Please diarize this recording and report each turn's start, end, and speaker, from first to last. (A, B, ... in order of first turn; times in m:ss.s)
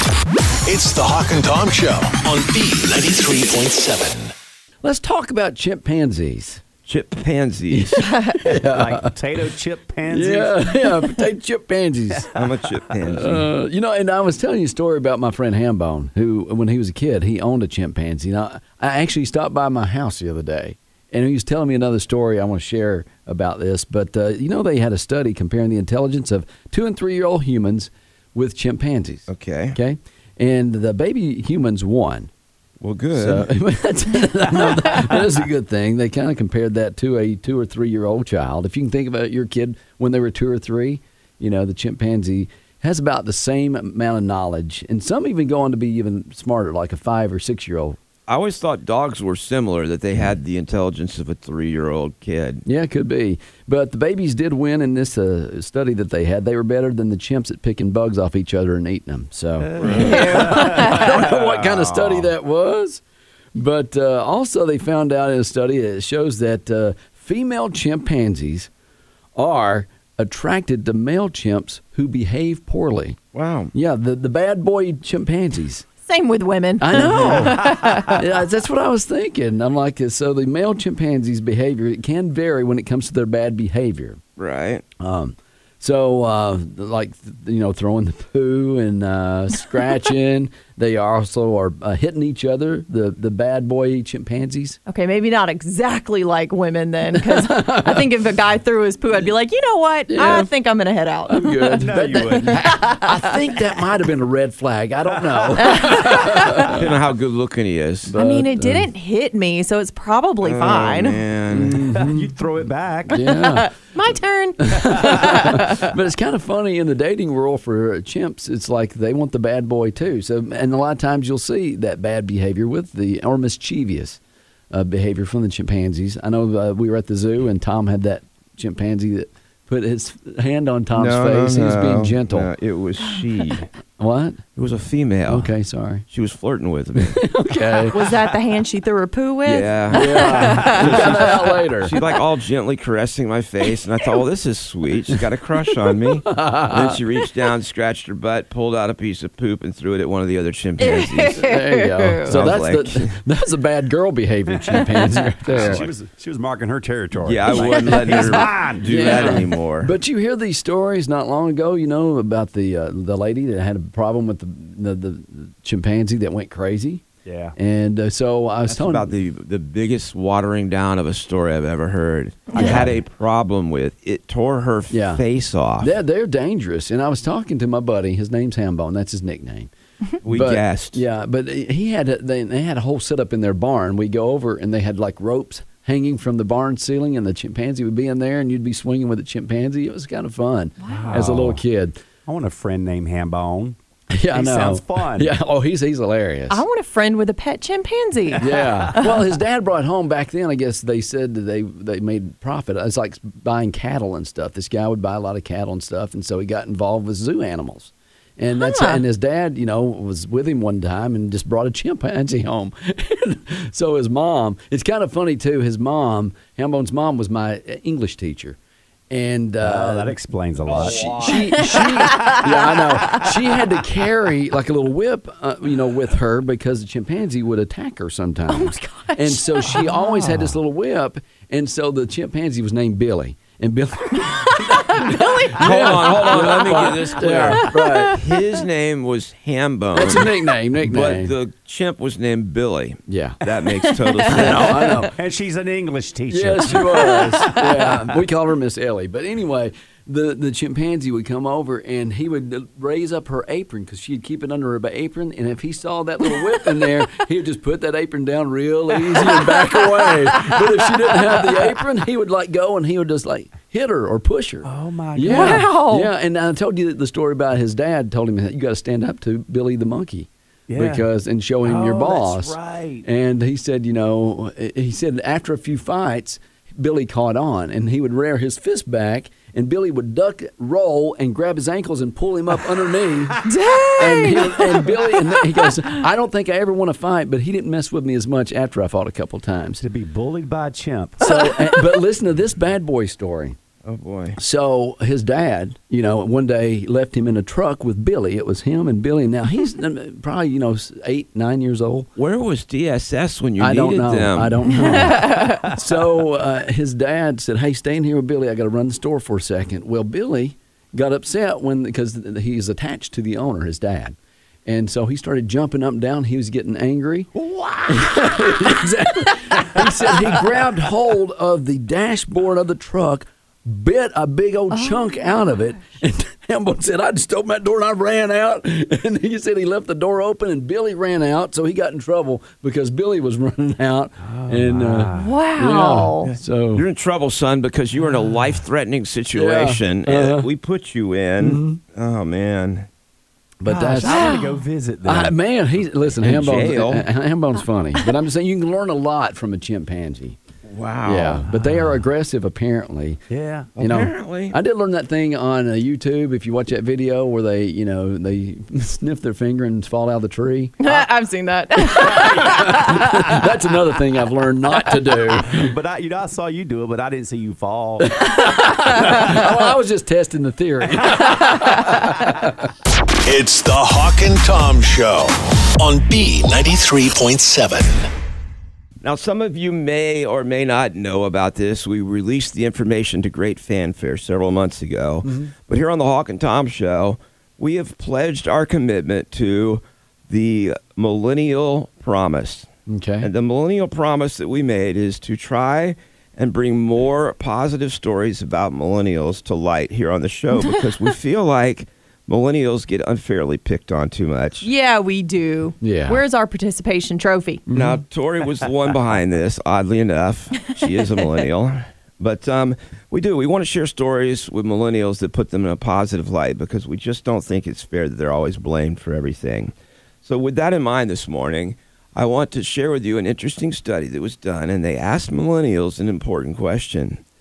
0:00.7-0:04.3 A
0:04.8-0:06.6 B
0:06.9-0:08.0 C
0:07.7-0:09.1 B
0:08.0-0:08.3 D
0:08.4-0:10.8 E
0:10.1-0:12.3 B
0:12.4-0:13.5 C
0:13.1-0:32.3 B
0:29.3-0:29.8 C
0:32.8-0:33.5 C
0:33.1-0:48.0 B
0:48.3-0:52.6 C
0:52.6-1:03.0 B
0:59.6-1:02.3 E
0:59.8-1:00.1 C
1:00.0-1:01.0 D
1:03.5-1:08.7 B
1:09.4-1:13.2 B
1:13.3-1:13.7 C
1:13.7-1:15.9 B
1:16.1-1:18.2 D
1:16.8-1:24.2 B
1:24.4-1:24.8 C
1:25.0-1:34.8 B
1:34.9-1:43.3 D
1:37.2-1:38.0 B
1:40.1-1:40.5 B
1:41.3-1:46.8 B
1:41.8-1:42.8 E
1:45.7-1:46.7 D
1:46.7-1:48.1 C
1:48.1-1:48.9 B
1:48.1-1:51.2 D
1:50.4-1:51.8 C
1:51.5-1:52.3 B
1:51.7-1:53.2 E
1:53.1-1:53.7 B
1:53.1-1:55.9 D
1:54.6-2:04.2 B
2:04.7-2:12.5 B
2:10.9-2:13.7 C
2:14.0-2:14.4 B
2:14.6-2:15.5 C
2:15.3-2:16.0 B
2:16.1-2:17.2 C
2:17.0-2:18.1 B
2:17.9-2:21.4 D
2:19.4-2:31.4 C
2:19.9-2:21.9 B
2:26.3-2:27.0 B
2:30.8-2:32.4 D
2:31.3-2:35.8 B
2:32.3-2:33.2 C
2:35.4-2:39.5 E
2:35.6-2:35.9 C
2:37.2-2:39.9 C
2:38.8-2:47.0 B
2:47.2-2:47.6 E
2:47.6-2:49.1 B
2:48.7-2:55.9 C
2:52.6-2:53.0 B
2:54.9-2:55.2 B
2:55.8-2:59.7 B
3:00.2-3:01.0 C
3:00.2-3:12.0 B
3:10.8-3:11.1 D
3:10.9-3:11.6 E
3:12.3-3:13.8 E
3:14.1-3:16.6 B
3:14.3-3:15.3 E
3:16.5-3:19.3 D
3:18.4-3:38.6 B
3:28.6-3:29.0 D
3:39.1-3:40.2 B
3:39.6-3:43.3 E
3:40.7-3:58.2 B
3:41.6-3:42.4 D
3:48.5-3:50.0 D
3:50.0-3:50.6 E
3:54.3-3:58.2 D
3:55.6-4:05.0 C
3:59.9-4:01.3 B
4:03.1-4:03.4 B
4:03.9-4:04.3 D
4:04.3-4:05.1 B
4:04.5-4:08.2 E
4:06.3-4:43.4 B
4:24.6-4:25.7 E
4:25.3-4:26.1 D
4:30.7-4:31.1 E
4:31.6-4:33.1 E
4:43.4-4:45.0 D
4:44.0-4:49.8 B
4:49.8-4:51.2 E
4:51.2-4:53.6 B
4:53.8-4:54.4 C
4:54.4-5:02.1 B
5:02.2-5:04.9 C
5:03.6-5:17.3 B
5:04.8-5:05.7 D
5:17.4-5:18.0 C
5:17.9-5:36.8 B
5:24.7-5:25.1 D
5:34.2-5:35.4 E
5:35.2-5:36.3 D
5:36.7-5:42.9 C
5:39.4-5:40.5 B
5:41.4-5:41.8 B
5:43.6-5:44.4 B
5:43.7-5:45.4 E
5:44.0-5:44.6 D
5:45.0-5:50.4 B
5:46.2-5:47.1 C
5:50.7-5:51.4 C
5:51.0-5:53.2 B
5:51.6-5:52.0 E
5:53.3-5:53.7 E
5:53.8-5:54.6 C
5:53.8-6:01.0 B
6:00.8-6:03.2 D
6:02.0-6:05.6 B
6:05.4-6:08.2 E
6:08.0-6:12.5 B
6:13.2-6:18.1 A
6:19.0-6:32.7 C
6:25.2-6:25.5 B
6:32.9-6:33.3 B
6:33.2-6:44.7 C
6:44.6-6:47.6 D
6:45.8-6:46.2 B
6:47.7-6:48.0 B
6:47.7-6:59.7 C
7:00.2-7:07.2 C